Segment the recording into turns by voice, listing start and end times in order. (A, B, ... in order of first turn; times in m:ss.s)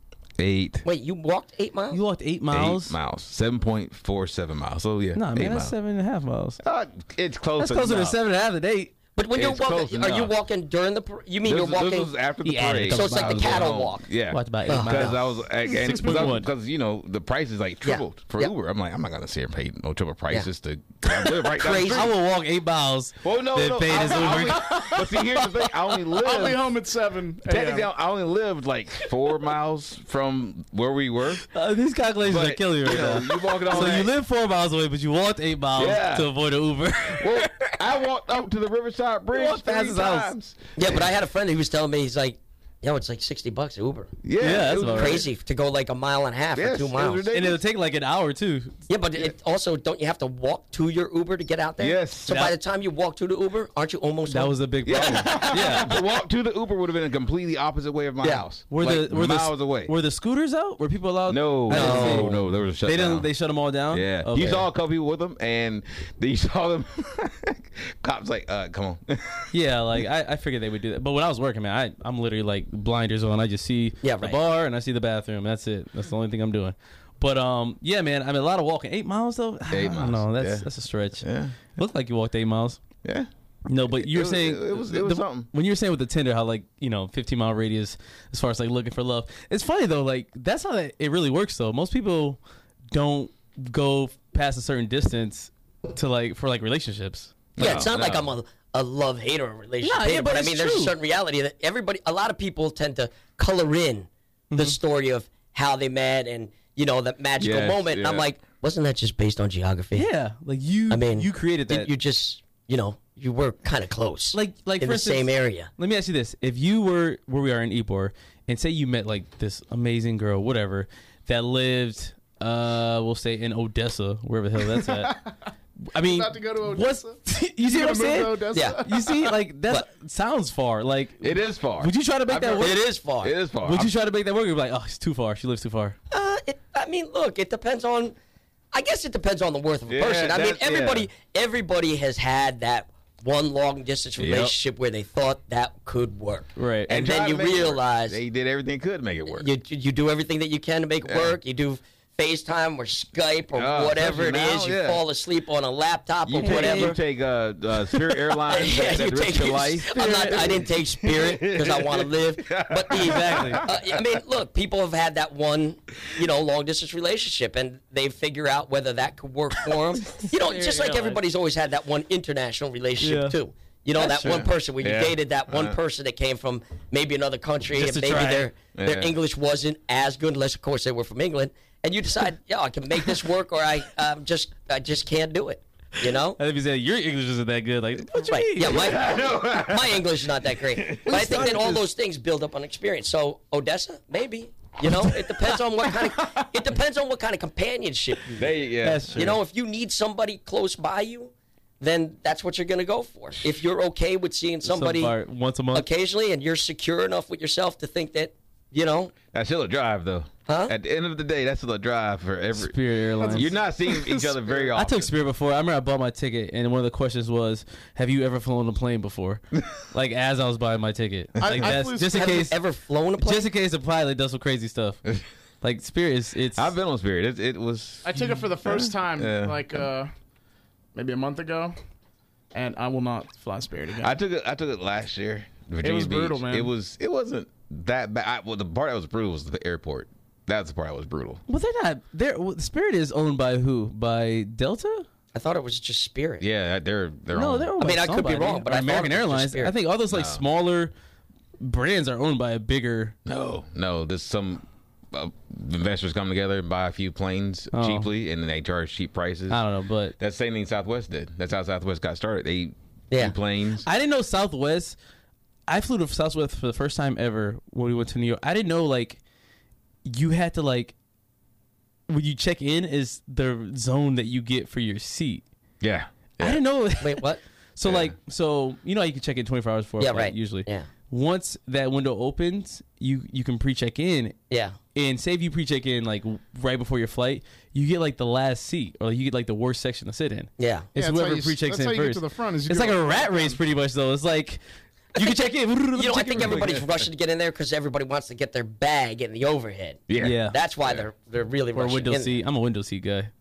0:00.4-0:00.8 A
0:00.8-0:02.0 B
0:01.9-0:03.0 C
0:02.5-0:05.7 A
0:05.1-0:06.6 C
0:06.6-0:08.2 A
0:07.6-0:08.9 C
0:09.2-0:12.1 B
0:09.4-0:10.3 A
0:11.4-0:22.1 A
0:12.4-0:13.8 C
0:12.9-0:14.0 B
0:14.3-0:16.5 C
0:14.7-0:15.2 B
0:17.8-0:18.5 B
0:21.1-0:22.1 B
0:21.9-0:25.0 C
0:23.2-0:26.6 A
0:24.3-0:25.0 D
0:26.1-0:27.9 D
0:27.4-0:31.4 A
0:31.5-0:37.8 C
0:32.2-0:34.1 A
0:35.8-0:36.3 A
0:37.1-0:41.0 A
0:39.3-0:40.3 C
0:40.8-0:47.3 B
0:44.2-0:45.2 A
0:44.4-0:45.2 C
0:46.6-0:47.6 A
0:47.3-0:48.8 C
0:48.9-0:55.8 B
0:51.8-0:52.6 A
0:54.3-0:55.9 C
0:54.8-0:59.9 A
0:58.7-1:04.7 C
1:01.3-1:03.3 A
1:01.7-1:02.4 B
1:03.9-1:09.5 A
1:09.5-1:22.8 C
1:14.0-1:14.4 B
1:19.7-1:20.7 A
1:21.2-1:21.6 A
1:23.0-1:23.3 A
1:23.7-1:32.4 C
1:23.9-1:25.5 A
1:32.9-1:37.8 C
1:37.6-1:38.3 A
1:37.6-1:50.1 B
1:39.8-1:40.9 C
1:44.5-1:44.8 C
1:47.4-1:48.3 A
1:49.9-1:51.9 C
1:50.9-1:55.7 B
1:54.3-2:05.2 C
2:04.7-2:05.3 D
2:05.9-2:12.8 C
2:06.0-2:09.3 D
2:08.5-2:08.8 B
2:11.2-2:13.9 A
2:12.6-2:13.3 B
2:13.6-2:16.0 C
2:16.1-2:18.1 B
2:18.7-2:28.2 B
2:19.9-2:21.1 A
2:24.2-2:24.5 A
2:26.6-2:26.9 C
2:26.9-2:29.5 A
2:29.3-2:37.0 B
2:31.0-2:31.4 A
2:33.5-2:35.0 A
2:36.2-2:44.0 A
2:36.4-2:36.9 C
2:38.4-3:06.4 B
2:43.0-2:43.6 C
2:50.1-2:51.2 C
2:53.0-2:53.4 C
2:53.9-2:54.4 C
2:54.3-2:55.8 A
2:57.7-2:58.5 C
2:58.8-2:59.2 A
3:06.4-3:08.9 C
3:08.3-3:18.5 B
3:08.7-3:10.0 A
3:10.7-3:11.4 A
3:11.0-3:11.8 C
3:15.2-3:15.5 C
3:18.3-3:19.2 A
3:18.8-3:19.4 C
3:19.2-3:25.1 B
3:24.6-3:25.8 C
3:25.7-3:29.1 B
3:29.3-3:32.7 A
3:30.5-3:30.7 B
3:32.6-3:33.5 C
3:33.2-3:34.7 D
3:33.3-3:35.1 A
3:34.7-3:42.6 C
3:41.4-3:42.2 D
3:42.1-3:43.5 B
3:43.2-3:45.0 C
3:45.6-3:46.7 C
3:46.6-3:49.6 A
3:48.0-3:50.1 D
3:50.9-3:51.7 D
3:52.5-3:54.1 D
3:54.0-4:01.4 A
3:55.8-3:56.7 D
4:01.5-4:05.1 C
4:05.3-4:06.4 B
4:06.4-4:07.7 A
4:07.3-4:10.9 C
4:07.8-4:09.7 B
4:10.1-4:10.4 A
4:11.6-4:13.2 C
4:13.2-4:19.6 A
4:17.7-4:18.1 C
4:19.5-4:20.1 C
4:20.2-4:23.8 A
4:23.8-4:25.0 C
4:25.7-4:29.2 C
4:30.0-4:30.9 C
4:32.1-4:35.4 C
4:35.8-4:36.6 A
4:36.4-4:44.4 C
4:37.0-4:37.4 B
4:37.8-4:38.1 A
4:40.0-4:40.9 B
4:44.5-4:44.8 B
4:44.9-4:54.6 C
4:50.6-4:50.9 B
4:51.0-4:53.6 D
4:55.1-4:56.8 C
4:55.9-5:02.4 B
4:56.4-4:56.8 A
5:00.1-5:01.0 A
5:00.2-5:00.6 C
5:01.7-5:03.3 C